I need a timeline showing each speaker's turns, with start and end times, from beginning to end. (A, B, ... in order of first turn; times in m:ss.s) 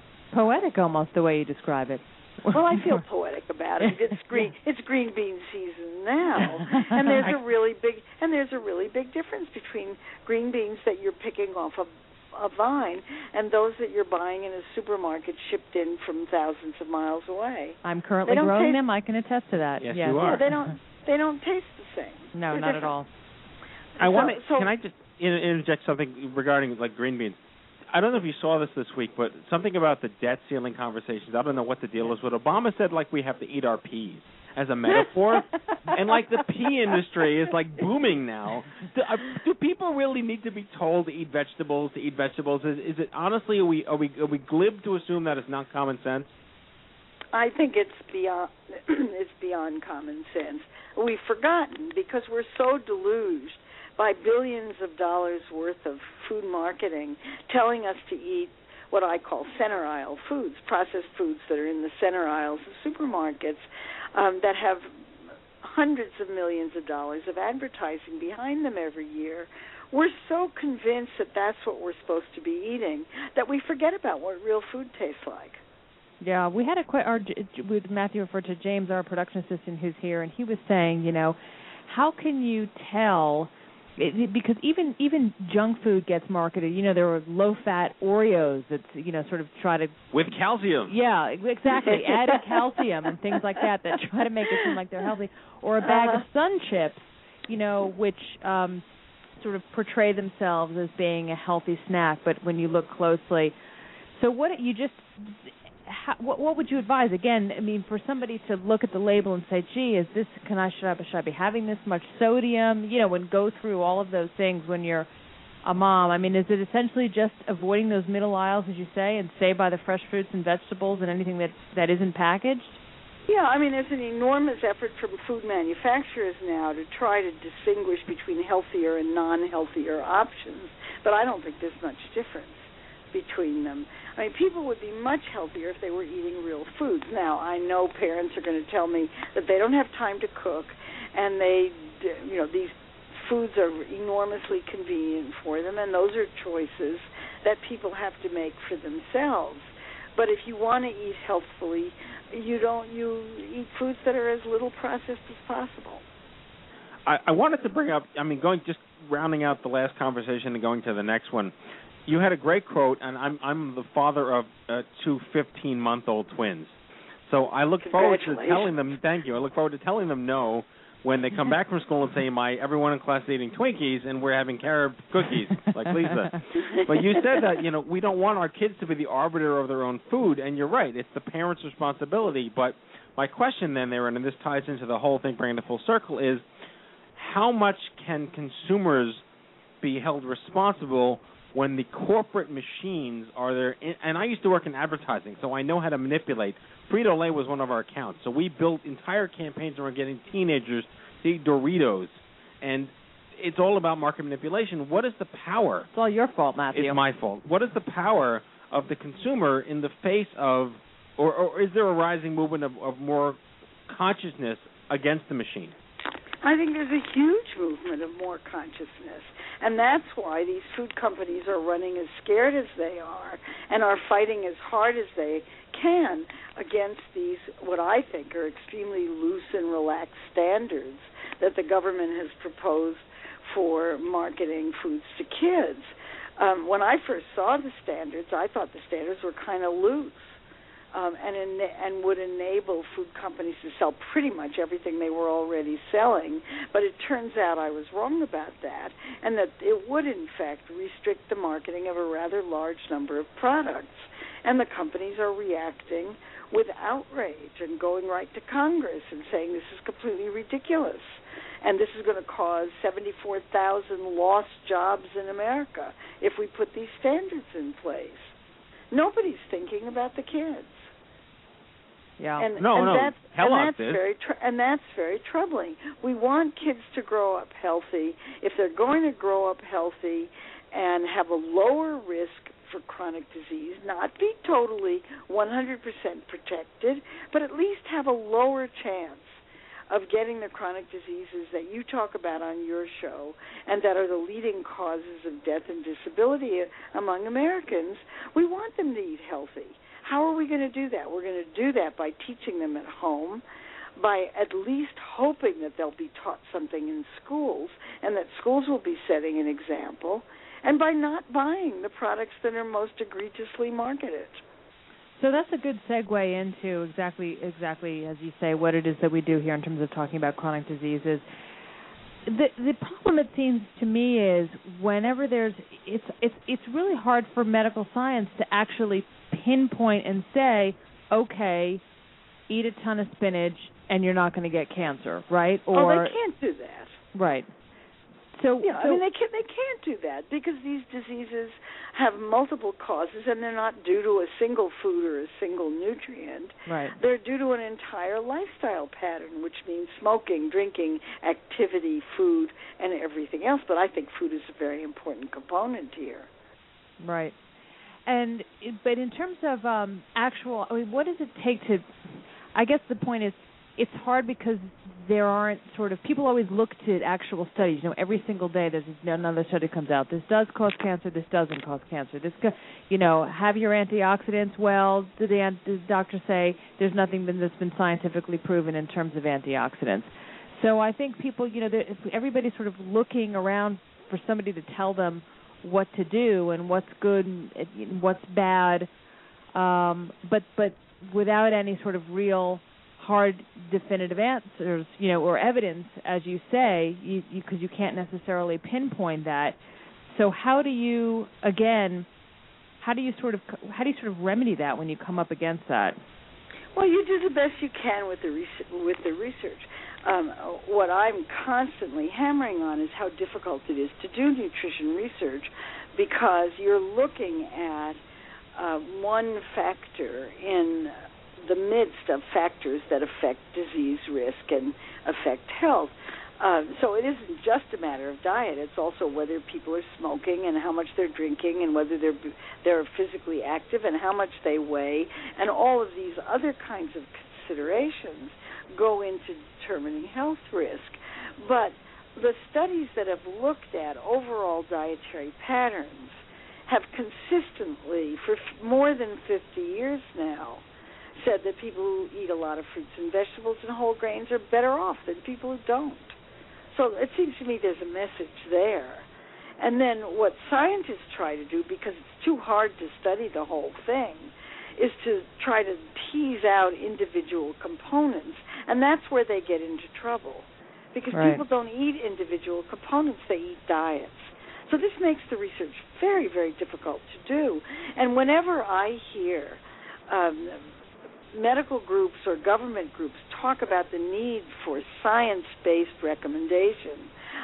0:00.3-0:03.0 A
0:02.5-0:18.8 B
0:03.8-0:04.5 A
0:06.4-0:07.4 A
0:17.8-0:20.7 A
0:19.8-0:20.4 C
0:20.2-0:22.9 B
0:22.3-0:23.1 A
0:24.0-0:24.7 B
0:24.0-0:27.4 C
0:27.9-0:46.3 C
0:47.3-1:05.0 B
1:05.6-1:15.6 B
1:16.2-1:29.9 A
1:30.1-1:30.9 C
1:30.8-1:38.8 A
1:31.8-1:32.6 B
1:33.3-1:33.6 B
1:35.8-1:36.2 B
1:39.4-1:43.5 A
1:44.1-1:55.1 A
1:55.6-2:02.8 A
2:03.3-2:36.0 B
2:37.0-2:41.5 C
2:42.0-3:06.4 C
2:47.8-2:48.8 B
2:56.7-2:57.5 B
3:07.2-3:09.2 C
3:09.8-3:25.9 C
3:25.9-3:27.0 A
3:26.7-3:35.7 C
3:36.4-4:00.4 B
4:00.9-4:28.3 B
4:28.9-4:30.9 B
4:32.2-4:32.5 A
4:32.4-5:03.4 B
4:32.6-4:34.0 C
5:04.0-5:14.4 B
5:15.2-5:21.2 A
5:22.2-5:31.8 A
5:32.5-5:36.1 A
5:35.7-5:37.0 B
5:37.1-5:37.5 A
5:38.3-5:39.0 A
5:38.6-5:56.3 B
5:46.7-5:46.9 A
5:57.0-5:57.3 A
5:58.1-6:01.9 A
6:02.5-6:28.9 A
6:29.5-6:42.1 A
6:42.8-6:46.0 A
6:46.7-6:58.0 B
6:58.6-7:30.6 B
7:31.2-7:36.2 B
7:36.7-7:39.1 B
7:39.6-8:00.7 B
7:51.1-7:51.4 A
8:01.3-8:07.1 B